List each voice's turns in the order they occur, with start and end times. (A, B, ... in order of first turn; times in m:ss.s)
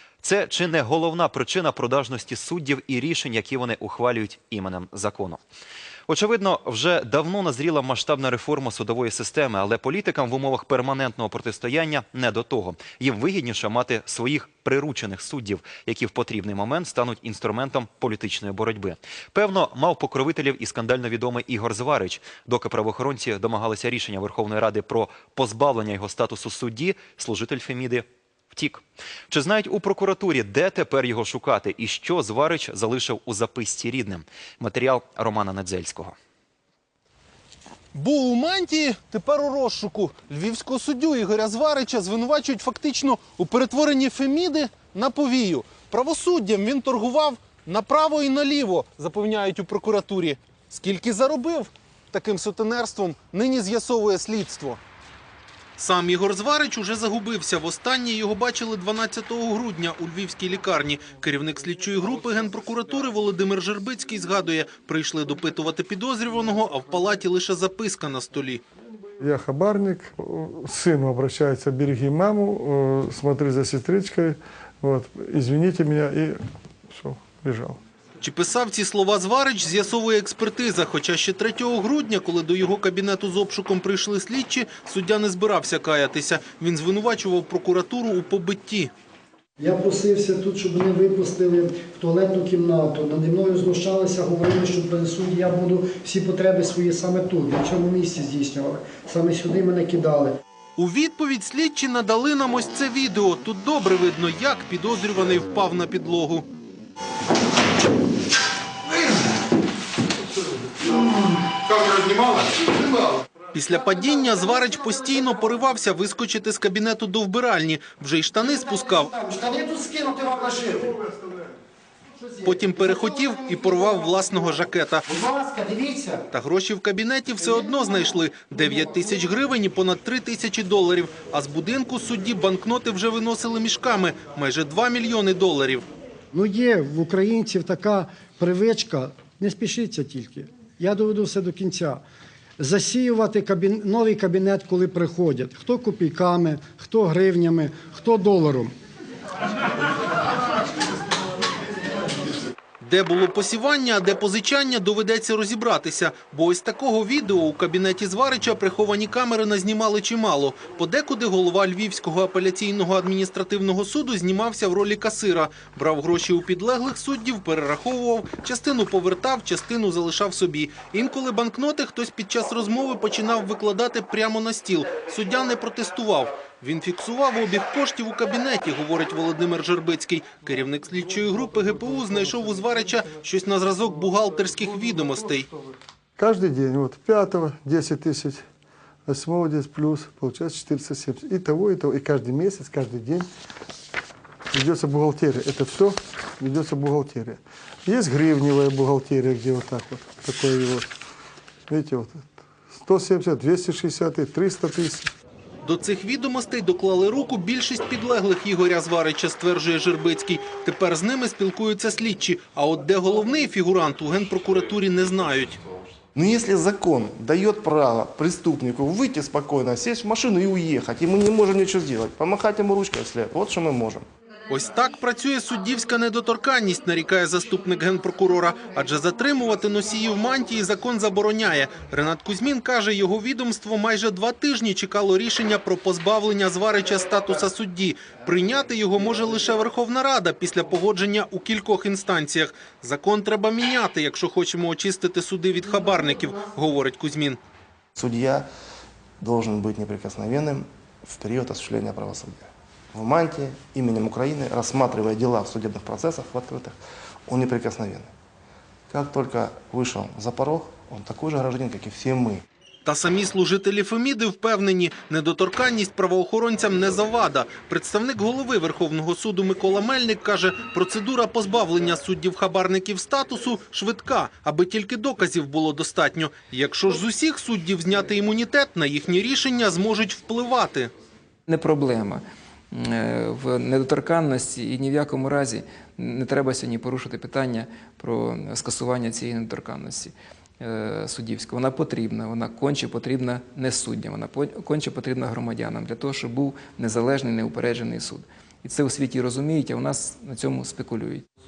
0:00.2-0:05.4 A
0:06.1-0:36.1 A
0:37.9-0:54.8 B
0:55.8-1:08.6 B
1:09.2-1:16.4 C
1:16.9-1:17.8 C
1:18.2-1:28.9 B
1:29.6-1:40.4 D
1:40.8-1:46.5 B
1:51.7-1:52.4 B
1:53.5-1:59.1 B
1:58.4-2:01.0 D
2:02.2-2:04.1 D
2:02.4-2:05.0 B
2:05.1-2:06.2 D
2:06.3-2:15.8 B
2:16.3-2:22.0 D
2:22.6-2:28.7 D
2:32.8-3:05.5 B
3:06.2-3:08.4 C
3:09.1-3:13.3 C
3:14.5-3:20.9 C
3:21.7-3:25.1 C
3:25.6-3:35.6 B
3:36.1-3:44.1 E
3:44.5-4:07.4 B
4:08.0-4:08.5 E
4:09.2-4:16.8 E
4:17.3-4:18.1 E
4:18.9-4:22.4 E
4:22.8-4:40.9 B
4:41.5-5:01.2 F